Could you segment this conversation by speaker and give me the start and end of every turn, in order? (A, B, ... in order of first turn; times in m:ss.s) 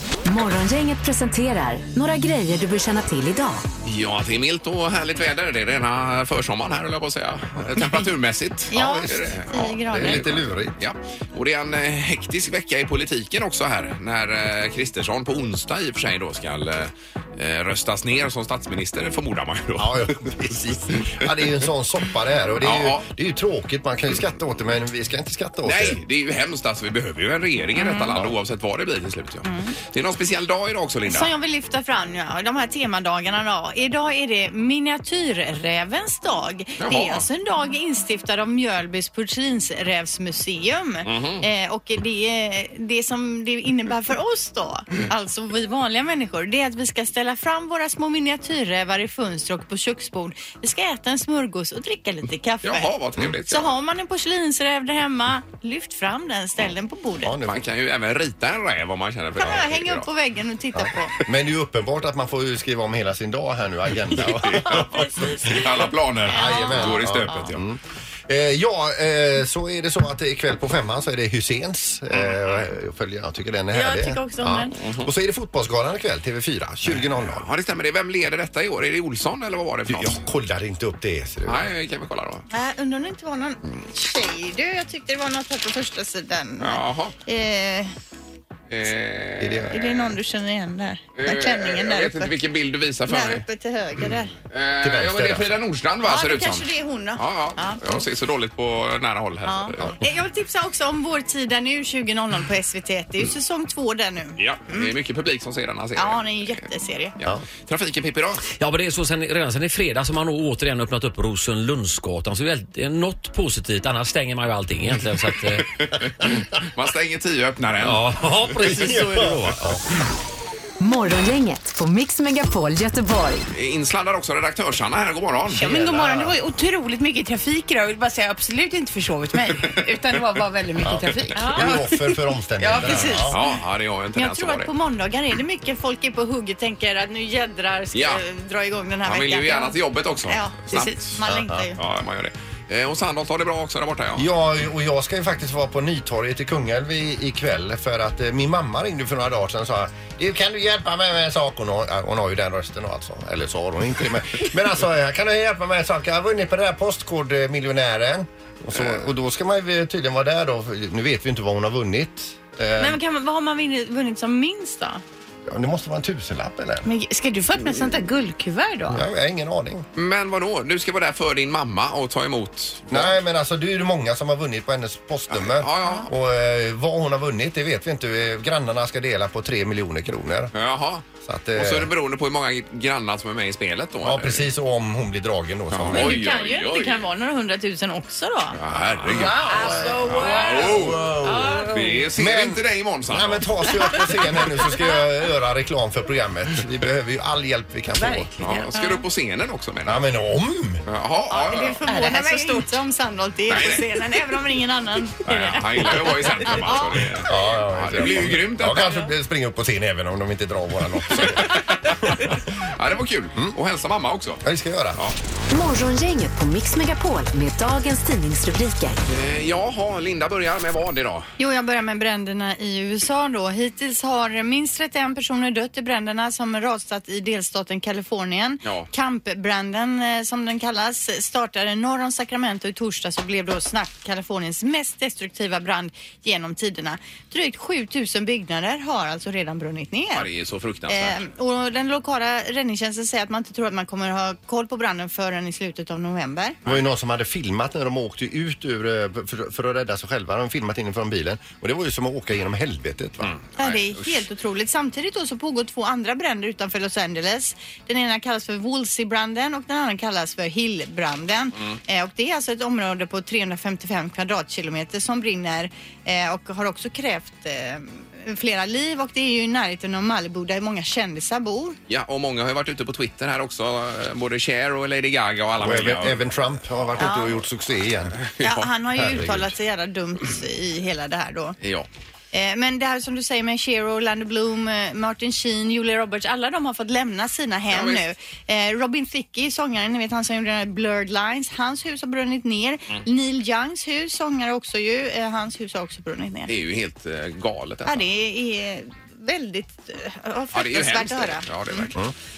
0:00.2-0:03.6 A
0:03.8-0:20.3 B
0:08.7-0:10.3 C
0:08.7-0:10.8 D
0:19.8-0:26.0 D
0:22.6-0:23.0 B
0:25.6-0:31.3 B
0:27.8-0:28.2 C
0:29.4-0:29.8 C
0:31.1-0:52.9 C
0:36.8-0:37.3 B
0:41.0-0:41.4 B
0:52.6-0:53.7 B
0:53.5-0:57.3 C
0:57.2-0:57.6 D
0:57.5-1:00.1 B
0:59.4-1:01.2 C
1:00.8-1:05.5 D
1:04.1-1:07.6 B
1:04.7-1:05.6 C
1:06.3-1:07.4 C
1:06.3-1:17.5 D
1:13.7-1:14.8 C
1:14.8-1:15.1 B
1:16.9-1:20.2 B
1:19.9-1:21.6 D
1:21.5-1:22.5 B
1:22.5-1:27.9 C
1:26.6-1:27.2 B
1:28.7-1:29.7 B
1:29.4-1:30.1 D
1:29.7-1:32.4 C
1:31.2-1:33.4 B
1:33.1-1:34.3 C
1:34.5-1:40.0 B
1:34.8-1:35.6 D
1:36.0-1:38.0 C
1:39.5-1:44.9 C
1:44.4-1:46.5 B
1:46.0-1:47.2 C
1:47.2-1:48.4 B
1:48.6-1:55.7 E
1:55.7-1:58.1 B
1:57.8-1:59.8 E
1:58.6-1:59.8 D
2:00.8-2:03.5 A
2:03.5-2:05.8 B
2:05.5-2:13.2 F
2:05.6-2:06.4 D
2:10.8-2:13.4 D
2:11.4-2:11.7 C
2:12.8-2:13.4 C
2:13.3-2:14.7 B
2:14.2-2:21.8 C
2:17.9-2:18.2 B
2:19.0-2:24.3 B
2:21.3-2:21.6 D
2:24.2-2:43.0 D
2:38.8-2:39.0 B
2:42.8-2:45.0 C
2:45.5-2:46.9 D
2:46.8-2:49.0 F
2:48.9-2:49.9 D
2:49.9-2:53.1 B
2:52.9-3:00.5 D
2:55.3-2:56.1 B
3:00.5-3:04.5 B
3:01.2-3:01.9 D
3:04.0-3:06.2 D
3:05.7-3:07.0 B
3:05.9-3:08.6 C
3:08.6-3:11.1 B
3:09.1-3:12.1 F
3:09.5-3:10.0 D
3:09.6-3:10.4 C
3:10.6-3:11.6 D
3:11.7-3:13.4 B
3:12.2-3:18.3 D
3:18.0-3:18.9 F
3:18.4-3:20.1 B
3:19.8-3:20.8 D
3:20.8-3:21.8 B
3:21.3-3:27.0 C
3:21.8-3:22.8 F
3:23.5-3:23.9 B
3:25.2-3:29.1 B
3:27.2-3:32.2 D
3:31.2-3:34.4 B
3:34.4-3:35.0 D
3:35.5-3:39.0 A
3:39.1-3:41.3 B
3:41.4-4:00.3 C
3:48.6-3:48.9 B
4:00.1-4:01.2 B
4:00.9-4:06.6 C
4:06.6-4:13.4 D
4:13.2-4:14.2 B
4:13.6-4:31.8 C
4:31.9-4:36.3 B
4:35.6-4:38.2 D
4:37.0-4:37.4 C
4:38.2-4:38.6 B
4:38.4-4:41.6 C
4:39.0-4:39.5 D
4:41.6-4:41.9 B
4:42.3-4:56.5 C
4:47.7-4:48.0 B
4:56.5-4:58.0 B
4:57.9-5:01.9 C
5:00.5-5:02.0 B